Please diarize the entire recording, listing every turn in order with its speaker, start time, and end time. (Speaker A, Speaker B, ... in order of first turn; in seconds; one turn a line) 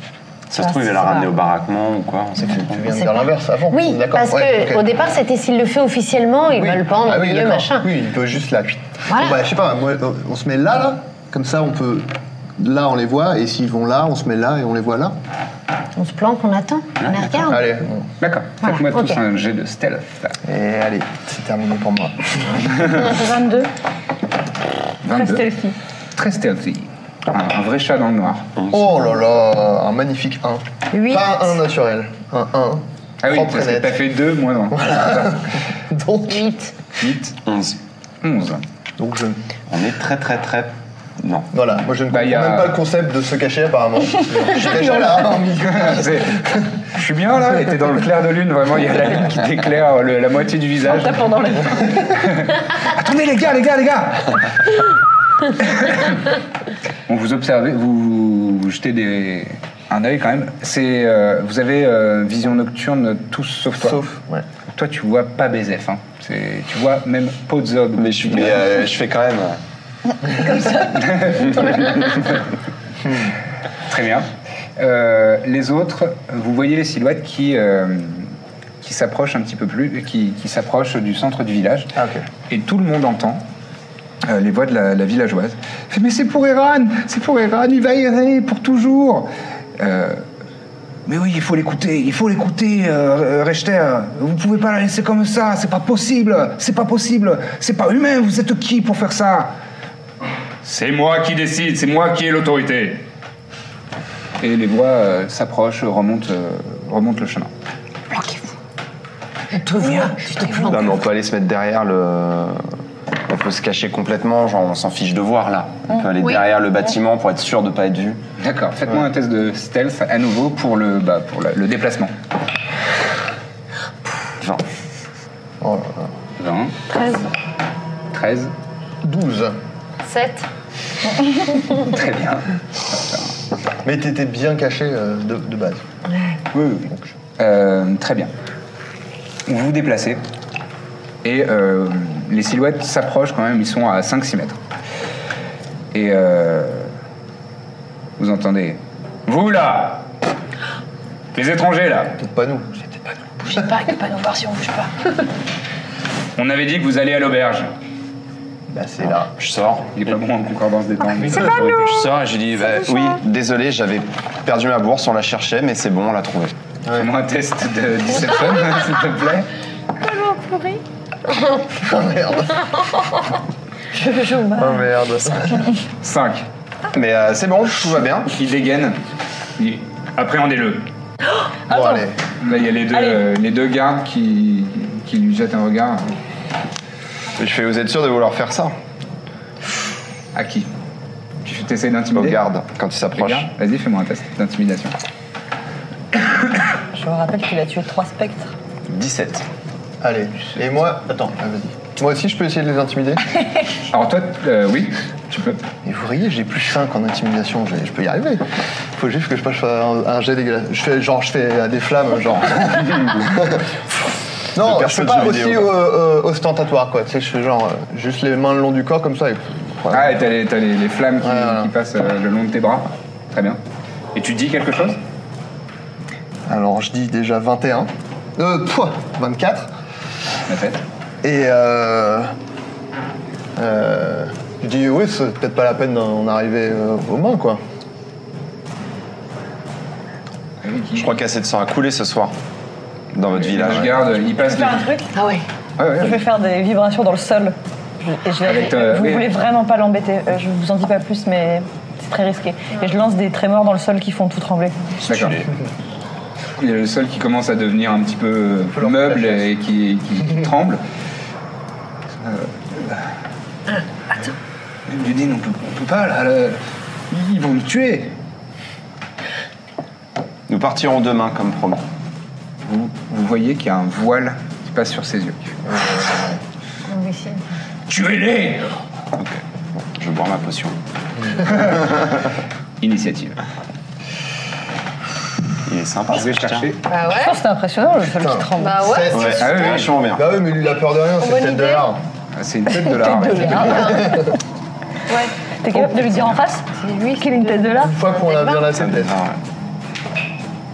Speaker A: 0.5-2.9
Speaker B: 0.5-1.3
Speaker C: 2.5-4.8
Speaker B: 2.9-7.9
Speaker C: 6.5-15.1
Speaker B: 9.1-9.4
Speaker B: 15.9-17.7
Speaker C: 17.5-18.1
Speaker D: 18.2-20.4
Speaker B: 18.6-19.2
Speaker C: 20.4-23.0
Speaker E: 23.0-23.7
Speaker D: 25.0-25.5
Speaker E: 25.1-25.8
Speaker D: 26.1-28.5
Speaker A: 28.6-29.0
Speaker C: 28.7-34.0
Speaker D: 33.2-35.5
Speaker C: 34.7-36.5
Speaker B: 36.3-36.7
Speaker D: 37.0-37.4
Speaker A: 37.5-37.8
Speaker D: 38.2-38.6
Speaker C: 39.0-39.4
Speaker A: 39.7-41.5
Speaker C: 41.5-46.7
Speaker D: 42.1-42.8
Speaker D: 45.6-51.3
Speaker E: 50.9-51.9
Speaker D: 52.0-54.8
Speaker D: 55.6-56.3
Speaker D: 57.1-64.0
Speaker C: 63.8-64.4
Speaker D: 64.7-68.6
Speaker A: 68.0-69.6
Speaker D: 70.4-72.4
Speaker C: 73.1-73.3
Speaker D: 73.9-81.9
Speaker C: 81.9-82.3
Speaker D: 82.5-83.4
Speaker D: 84.2-90.2
Speaker D: 91.0-99.5
Speaker D: 100.6-103.0
Speaker D: 104.4-107.5
Speaker B: 108.1-108.4
Speaker B: 109.5-111.0
Speaker E: 109.8-110.7
Speaker A: 110.6-112.7
Speaker A: 113.3-118.2
Speaker B: 116.2-116.4
Speaker D: 118.4-122.1
Speaker C: 125.6-126.1
Speaker D: 126.4-126.7
Speaker E: 126.9-127.3
Speaker D: 128.1-128.5
Speaker C: 129.0-129.6
Speaker B: 130.0-130.5
Speaker D: 131.7-133.3
Speaker C: 133.8-135.8
Speaker B: 136.1-136.4
Speaker D: 136.5-138.3
Speaker D: 139.5-140.2
Speaker D: 141.2-144.6
Speaker D: 145.9-146.9
Speaker D: 148.2-150.1
Speaker D: 151.3-152.2
Speaker C: 152.2-152.9
Speaker E: 153.4-154.9
Speaker D: 156.3-157.7
Speaker C: 158.7-159.3
Speaker A: 159.0-160.2
Speaker D: 159.9-161.7
Speaker A: 161.3-166.5
Speaker D: 166.9-169.5
Speaker B: 170.0-170.8
Speaker C: 171.8-172.7
Speaker E: 173.9-174.9
Speaker C: 174.6-175.7
Speaker D: 176.0-176.4
Speaker A: 176.9-178.3
Speaker D: 178.3-179.0
Speaker D: 179.6-180.9
Speaker E: 181.7-182.0
Speaker C: 181.7-182.2
Speaker D: 182.4-186.1
Speaker E: 182.9-183.2
Speaker A: 187.4-188.8
Speaker D: 190.3-190.7
Speaker D: 191.4-192.4
Speaker A: 192.1-193.5
Speaker D: 193.1-194.9
Speaker E: 196.9-198.5
Speaker A: 198.8-199.4
Speaker C: 200.0-203.3
Speaker D: 203.9-205.6
Speaker C: 205.8-213.7
Speaker C: 214.5-220.2
Speaker A: 214.6-215.7
Speaker D: 219.9-223.6
Speaker C: 221.2-221.7
Speaker D: 224.1-225.0
Speaker C: 226.5-229.7
Speaker D: 230.4-230.8
Speaker C: 231.2-232.3
Speaker C: 233.6-237.6
Speaker D: 240.6-241.1
Speaker A: 240.9-242.3
Speaker A: 243.1-243.9
Speaker D: 243.4-244.9
Speaker E: 244.3-245.1
Speaker B: 245.1-245.4
Speaker D: 245.8-246.2
Speaker E: 246.0-255.0
Speaker D: 248.4-249.3
Speaker D: 255.1-255.4
Speaker A: 255.1-255.4
Speaker D: 256.6-260.8
Speaker C: 258.7-259.5
Speaker D: 262.1-263.1
Speaker D: 264.9-266.6
Speaker D: 267.1-268.1
Speaker A: 270.5-271.8
Speaker D: 272.6-275.6
Speaker C: 275.6-276.4
Speaker B: 276.9-277.4
Speaker D: 277.9-278.7
Speaker A: 279.1-280.8
Speaker D: 281.5-281.8
Speaker D: 282.8-283.4
Speaker A: 285.6-286.7
Speaker D: 286.1-286.8
Speaker B: 286.9-287.4
Speaker E: 287.1-288.9
Speaker C: 288.1-292.0
Speaker B: 288.6-289.2
Speaker A: 289.1-290.3
Speaker D: 289.4-289.9
Speaker B: 291.2-291.8
Speaker D: 292.3-294.0
Speaker E: 292.7-294.2
Speaker C: 293.4-294.3
Speaker B: 293.5-294.1
Speaker E: 295.6-296.7
Speaker B: 296.7-298.7
Speaker E: 297.2-297.9
Speaker C: 297.8-299.2
Speaker A: 298.7-299.4